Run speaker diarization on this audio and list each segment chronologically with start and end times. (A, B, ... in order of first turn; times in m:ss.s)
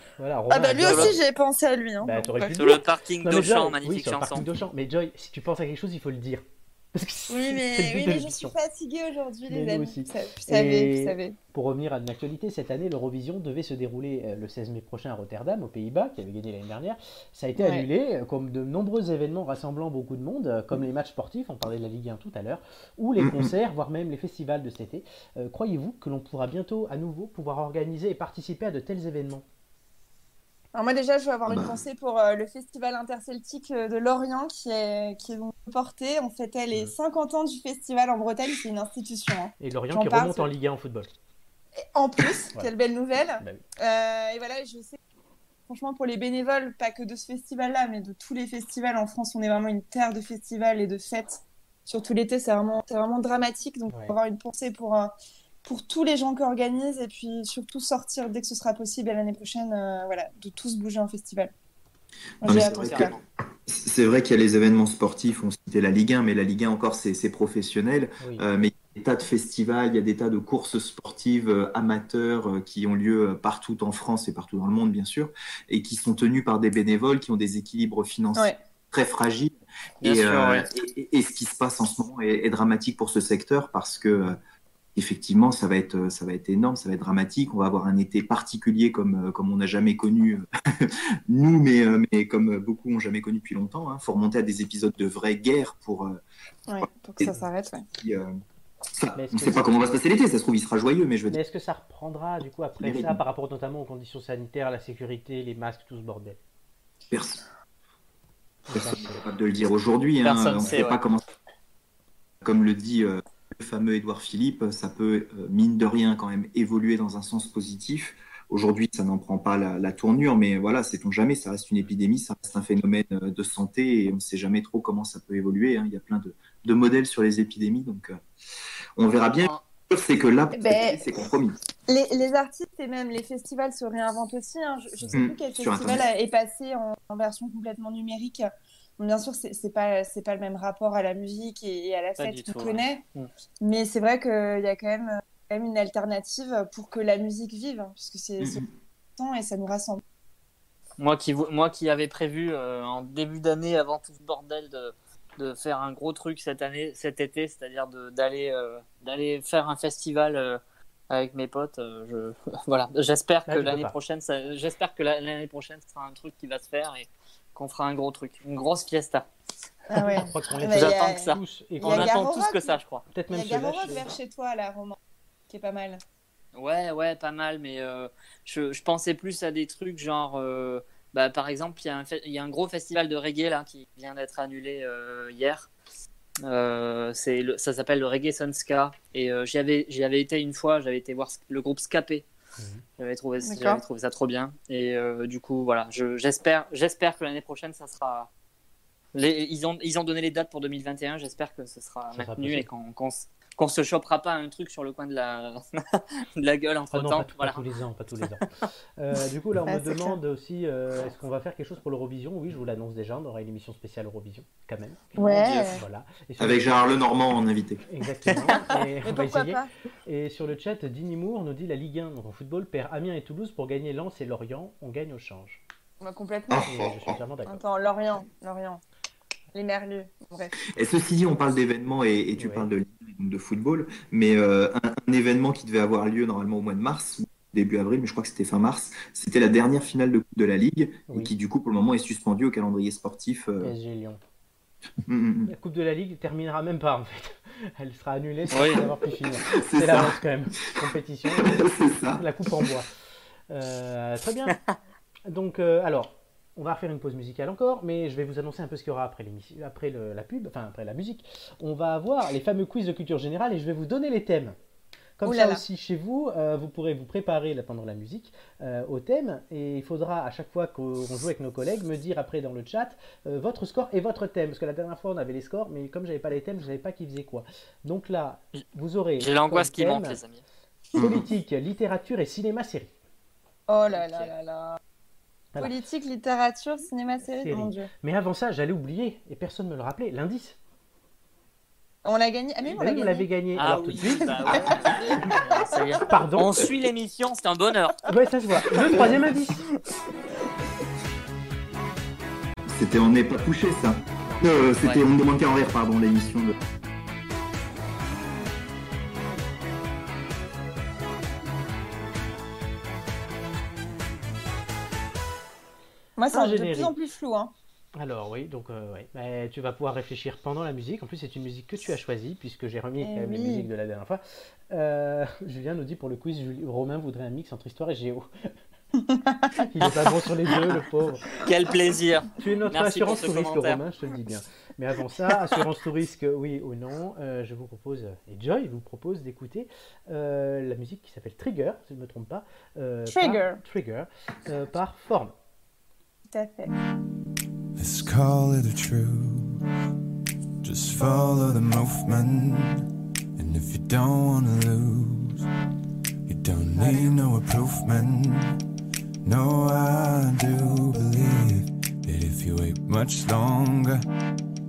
0:00.2-0:01.2 A
0:00.5-0:02.8 B
0:00.7-0:01.2 C
0:02.0-0:08.6 A
0:02.6-0:04.5 C
0:07.3-0:11.4 B
0:09.5-0:29.4 A
0:17.6-0:17.9 B
0:23.2-0:23.5 D
0:30.8-0:40.5 B
0:31.5-0:31.8 D
0:39.6-0:41.1 A
0:41.8-0:45.0 B
0:45.7-0:55.1 B
0:53.9-0:54.2 A
0:55.6-1:01.5 B
1:02.4-1:03.1 B
1:02.4-1:03.2 D
1:02.8-1:03.2 C
1:03.7-1:24.4 D
1:20.0-1:20.7 C
1:25.0-1:36.2 D
1:36.7-1:37.9 B
1:38.0-1:38.4 D
1:38.9-1:41.4 D
1:39.2-1:39.8 A
1:41.3-1:46.4 A
1:42.8-1:43.2 D
1:47.1-1:47.4 D
1:48.7-1:51.2 D
1:48.7-1:49.2 A
1:50.2-1:51.0 C
1:52.4-2:08.2 D
2:09.0-2:11.6 D
2:09.3-2:09.6 C
2:10.6-2:11.0 B
2:11.9-2:23.0 B
2:15.1-2:16.0 D
2:22.2-2:22.8 C
2:23.6-2:28.6 B
2:28.4-2:28.7 D
2:29.2-2:30.0 B
2:31.0-2:49.3 C
2:43.5-2:44.0 A
2:49.9-2:51.3 B
2:50.0-2:52.2 A
2:50.7-2:53.0 C
2:51.8-2:52.8 B
2:53.1-2:54.0 A
2:53.3-2:55.0 B
2:55.5-2:56.0 B
2:56.6-3:05.7 C
3:06.4-3:12.2 C
3:12.6-3:12.8 A
3:13.0-3:18.3 C
3:13.4-3:13.8 B
3:19.1-3:27.6 C
3:22.1-3:22.7 A
3:26.9-3:28.5 A
3:29.0-3:36.9 A
3:29.7-3:30.2 B
3:35.2-3:35.8 B
3:35.2-3:35.7 D
3:36.4-3:37.8 D
3:37.9-3:45.6 A
3:38.6-3:39.7 B
3:46.0-3:46.8 B
3:46.5-3:47.2 D
3:46.7-3:47.6 A
3:47.4-3:48.8 B
3:49.5-3:50.6 B
3:50.8-4:03.7 D
3:52.4-3:52.7 A
4:03.6-4:04.2 A
4:05.1-4:05.5 D
4:05.5-4:12.9 A
4:08.5-4:08.8 C
4:09.4-4:10.8 D
4:11.3-4:12.7 D
4:13.5-4:14.6 A
4:14.5-4:14.8 C
4:15.3-4:24.6 A
4:25.2-4:40.2 A
4:25.2-4:25.6 B
4:39.2-4:40.4 C
4:41.0-4:42.9 A
4:41.0-4:41.3 D
4:43.7-4:44.8 B
4:43.9-4:44.3 C
4:45.6-4:47.9 B
4:47.3-4:50.6 A
4:52.0-4:53.3 B
4:52.8-4:54.8 A
4:53.6-4:58.1 C
4:54.6-4:55.6 B
4:56.1-4:56.6 A
4:58.1-4:59.6 A
5:02.7-5:06.6 D
5:04.2-5:04.7 A
5:16.2-5:17.5 B
5:16.3-5:17.0 A
5:18.0-5:28.3 A
5:23.0-5:23.7 B
5:29.0-5:29.6 B
5:29.6-5:31.3 A
5:30.5-5:30.8 C
5:31.4-5:33.8 C
5:32.4-5:45.4 A
5:43.1-5:43.6 B
5:46.3-5:46.7 B
5:47.8-5:49.5 E
5:50.6-5:52.8 E
5:53.4-5:55.3 E
5:56.3-5:58.5 E
5:56.8-5:57.1 B
5:59.3-6:04.0 E